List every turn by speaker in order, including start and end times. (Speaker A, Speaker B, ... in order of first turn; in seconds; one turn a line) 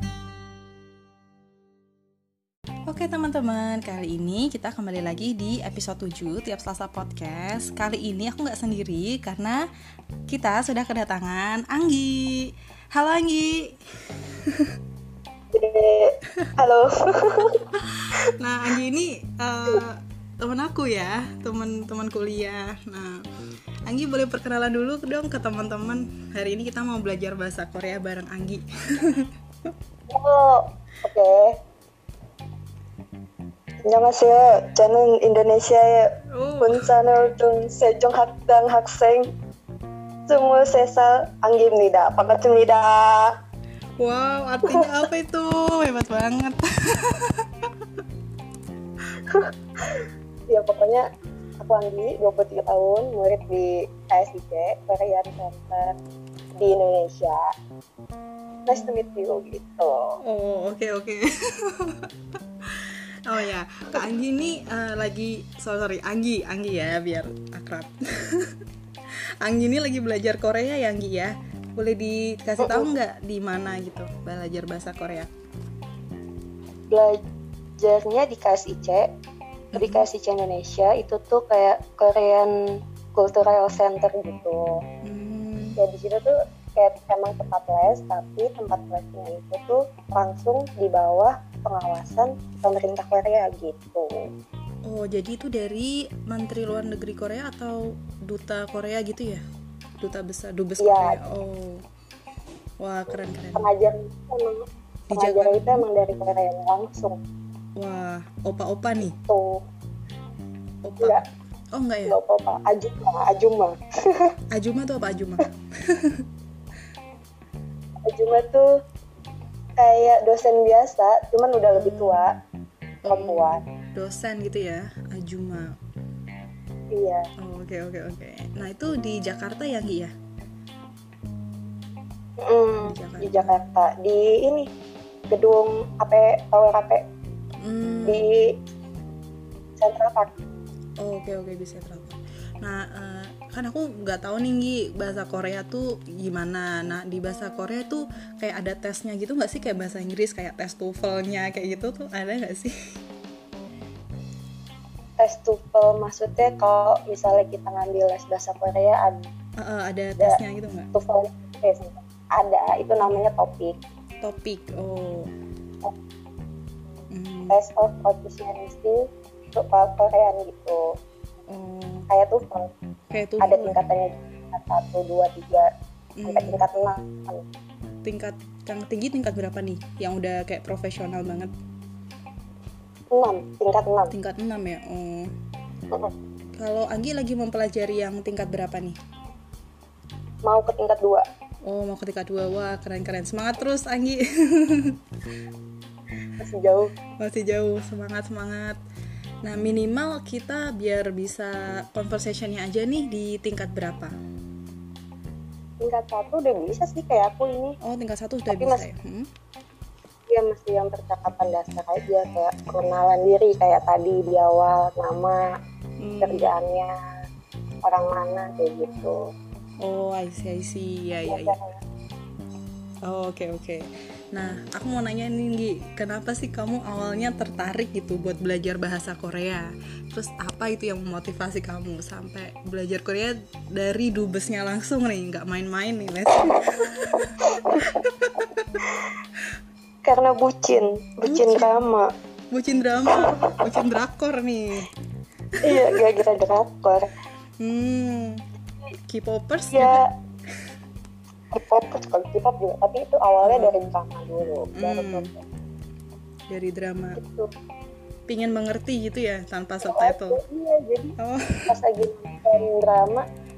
Speaker A: 2.9-9.6
Speaker A: 10.3-13.8
Speaker A: 14.4-14.8
Speaker B: 15.5-17.7
Speaker A: 17.8-23.2
Speaker A: 23.9-29.7
Speaker B: 30.1-31.6
Speaker B: 33.8-39.3
Speaker A: 36.3-37.0
Speaker B: 40.3-43.3
Speaker A: 44.0-47.7
Speaker B: 44.6-44.9
Speaker B: 49.3-51.0
Speaker B: 51.6-56.0
Speaker B: 56.6-57.4
Speaker B: 58.6-60.2
Speaker A: 60.2-68.5
Speaker A: 69.4-75.3
Speaker B: 72.6-72.9
Speaker B: 76.9-77.2
Speaker B: 77.8-79.1
Speaker A: 79.7-80.0
Speaker B: 79.7-82.5
Speaker B: 83.1-84.8
Speaker A: 85.0-85.8
Speaker B: 85.8-94.2
Speaker A: 94.8-99.4
Speaker A: 100.0-101.8
Speaker B: 100.8-101.2
Speaker A: 102.8-103.7
Speaker B: 103.5-107.2
Speaker A: 105.1-105.8
Speaker A: 107.8-109.2
Speaker B: 109.1-109.6
Speaker A: 110.8-112.2
Speaker B: 112.1-114.3
Speaker A: 114.5-116.2
Speaker B: 118.0-118.7
Speaker B: 119.8-122.3
Speaker A: 121.7-122.2
Speaker A: 123.0-125.7
Speaker B: 123.1-123.6
Speaker B: 126.9-127.2
Speaker A: 127.4-130.1
Speaker B: 132.4-134.7
Speaker A: 132.8-133.6
Speaker B: 135.3-137.0
Speaker A: 137.6-138.3
Speaker B: 138.0-138.5
Speaker B: 139.8-140.3
Speaker A: 141.0-152.7
Speaker B: 155.2-159.2
Speaker A: 159.6-160.9
Speaker B: 160.9-163.8
Speaker A: 164.2-165.3
Speaker A: 167.1-167.6
Speaker B: 167.5-170.9
Speaker A: 171.5-172.1
Speaker B: 172.1-172.7
Speaker A: 173.1-174.0
Speaker B: 173.4-175.7
Speaker A: 176.2-176.6
Speaker B: 176.3-177.4
Speaker A: 178.0-181.5
Speaker B: 183.1-184.1
Speaker A: 184.1-185.3
Speaker A: 186.6-189.0
Speaker B: 190.4-191.2
Speaker A: 191.6-195.0
Speaker B: 196.4-196.9
Speaker A: 197.2-198.8
Speaker A: 199.4-204.2
Speaker B: 205.8-207.8
Speaker A: 207.8-209.3
Speaker B: 208.5-208.8
Speaker B: 210.3-215.4
Speaker A: 216.0-216.5
Speaker B: 216.2-216.9
Speaker B: 217.8-219.3
Speaker A: 219.8-221.5
Speaker B: 221.2-221.8
Speaker A: 223.0-238.8
Speaker B: 237.1-237.9
Speaker B: 240.0-242.1
Speaker A: 241.2-241.9
Speaker A: 242.5-244.9
Speaker B: 243.1-243.5
Speaker A: 245.6-246.0
Speaker B: 245.6-247.1
Speaker A: 247.6-248.4
Speaker A: 249.1-250.0
Speaker B: 249.7-250.1
Speaker B: 251.5-255.4
Speaker A: 253.4-253.8
Speaker A: 254.7-255.3
Speaker A: 256.5-257.2
Speaker B: 257.1-257.5
Speaker A: 258.3-260.4
Speaker B: 259.8-261.1
Speaker A: 261.2-261.7
Speaker B: 261.7-263.2